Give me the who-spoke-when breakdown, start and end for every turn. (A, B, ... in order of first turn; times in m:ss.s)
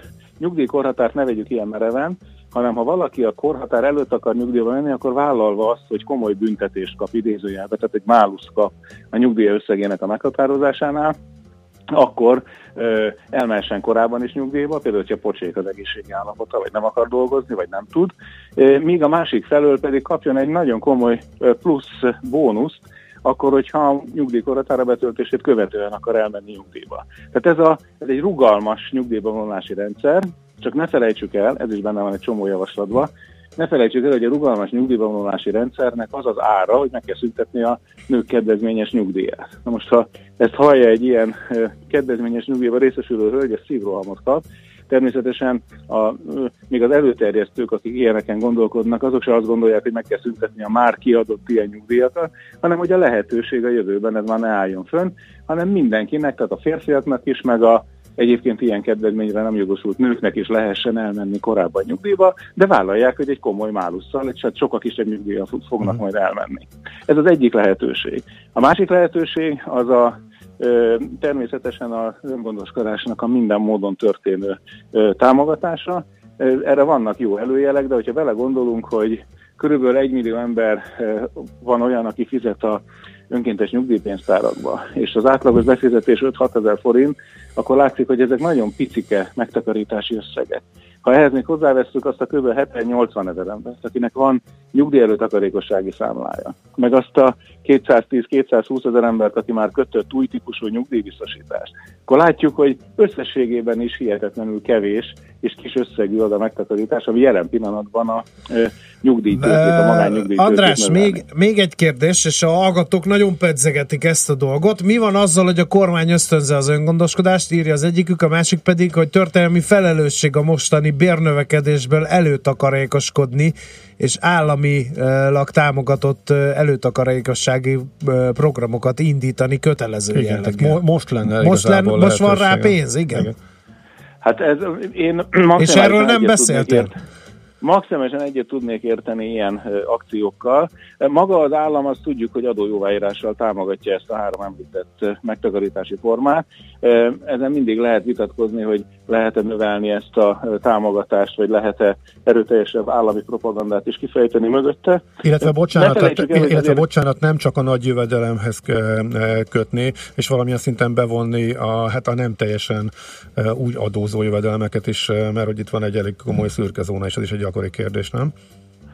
0:00.4-0:11.2 A
0:11.9-1:51.2 A
1:49.3-2:10.8 B
2:10.1-2:13.4 C
2:11.4-2:13.3 B
2:14.2-2:16.9 A
2:15.6-2:16.9 B
2:17.6-2:35.2 A
2:35.2-2:48.3 C
2:35.7-2:36.8 A